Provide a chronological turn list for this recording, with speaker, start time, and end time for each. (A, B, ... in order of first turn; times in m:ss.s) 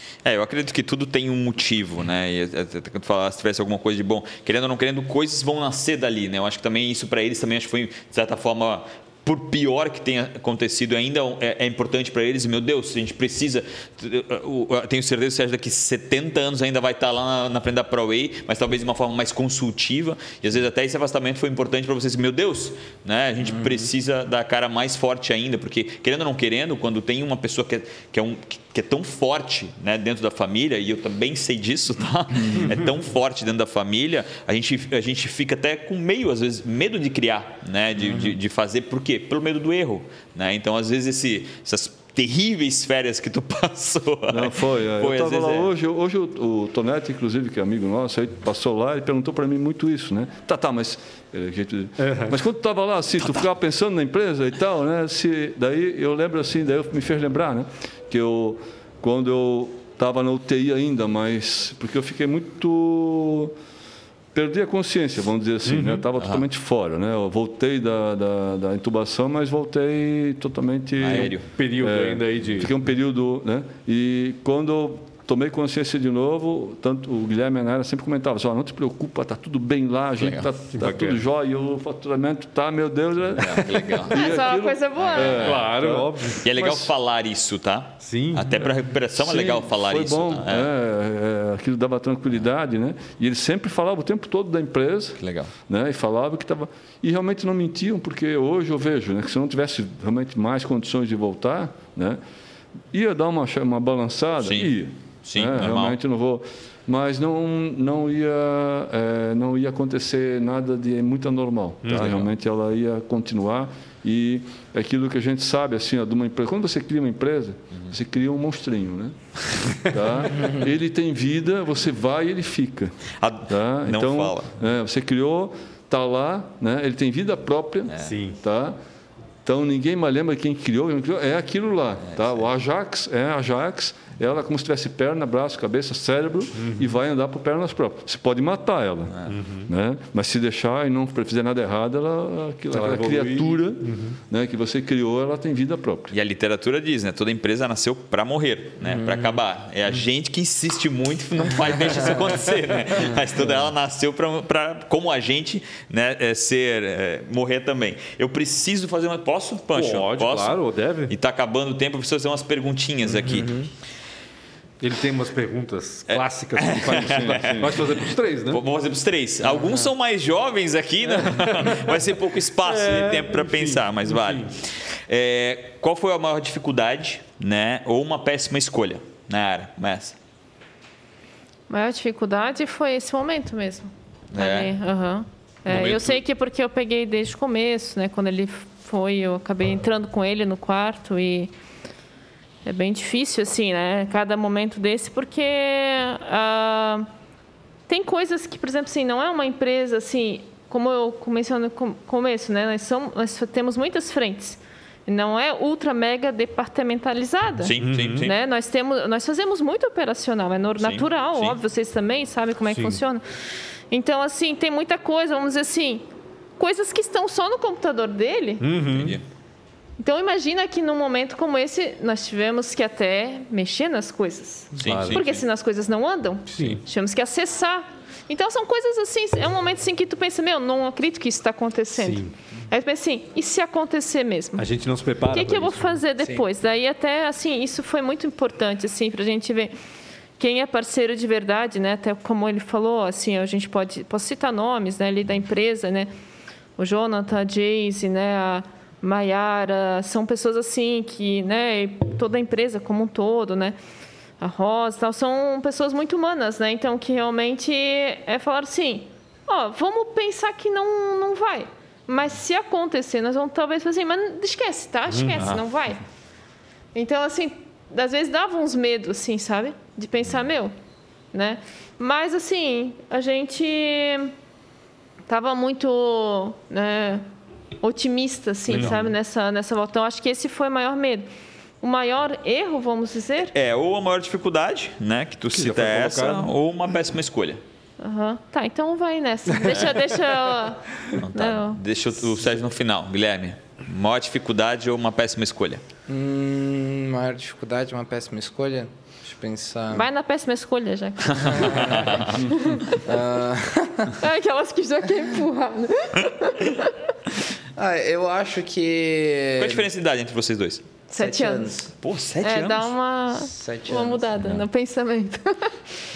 0:00.2-0:45.7 A
0:23.5-0:23.8 B
0:44.3-1:03.5 C
0:52.0-0:52.4 D
1:04.3-1:26.3 C
1:05.7-1:06.0 D
1:11.0-1:11.4 A
1:11.1-1:12.7 D
1:20.2-1:20.5 A
1:20.7-1:21.2 D
1:23.4-1:25.6 A
1:24.1-1:25.6 E
1:25.4-1:26.9 D
1:26.4-1:30.7 A
1:28.0-1:28.6 D
1:29.2-1:42.2 C
1:35.2-1:35.5 A
1:42.9-2:03.0 C
1:44.4-1:44.7 A
1:45.2-1:46.0 A
1:51.8-1:52.1 D
1:51.9-1:52.3 A
2:03.2-2:04.5 A
2:03.5-2:08.8 C
2:07.9-2:08.1 A
2:08.0-2:08.4 D
2:09.4-2:26.1 C
2:16.6-2:16.9 D
2:19.3-2:19.7 D
2:22.7-2:24.2 D
2:26.1-2:40.6 A
2:28.8-2:29.3 B
2:39.7-2:41.1 D
2:41.1-2:43.6 A
2:43.3-2:43.7 B
2:44.8-2:48.6 D
2:46.1-3:00.2 A
2:47.0-2:47.8 C
2:49.5-2:49.8 B
2:51.1-2:51.9 D
2:52.6-2:54.5 D
3:01.7-3:11.5 E
3:04.3-3:04.8 A
3:05.7-3:06.2 D
3:12.6-3:17.1 E
3:17.9-3:33.2 E
3:27.6-3:28.3 A
3:27.8-3:28.3 D
3:30.8-3:31.6 A
3:32.7-3:33.0 D
3:33.9-3:36.0 E
3:36.6-3:38.6 E
3:38.6-3:39.2 D
3:38.9-3:39.2 A
3:40.0-3:54.6 E
3:44.7-3:45.4 A
3:44.8-3:45.2 D
3:46.5-3:46.8 D
3:52.0-3:52.3 D
3:54.6-3:56.0 D
3:55.3-3:59.7 E
4:00.4-4:06.1 E
4:06.8-4:13.8 E
4:14.4-4:26.0 E
4:25.1-4:25.4 D
4:25.4-4:25.6 A
4:26.9-4:30.7 E
4:31.3-4:34.3 E
4:35.3-4:37.2 E
4:37.8-4:41.3 E
4:38.7-4:39.0 A
4:41.8-4:43.5 E
4:43.5-4:47.6 A
4:45.5-4:46.5 D
4:48.0-4:50.8 E
4:49.7-4:50.0 A
4:51.2-4:55.8 A
4:51.3-4:51.8 E
4:56.1-5:00.1 B
4:59.9-5:02.8 E
5:01.2-5:02.3 A
5:01.4-5:04.2 B
5:04.2-5:06.9 E
5:07.8-5:09.9 B
5:09.6-5:10.9 A
5:11.1-5:11.7 E
5:11.2-5:11.9 B
5:12.0-5:12.9 A
5:12.4-5:15.7 E
5:13.4-5:14.3 B
5:14.4-5:14.6 A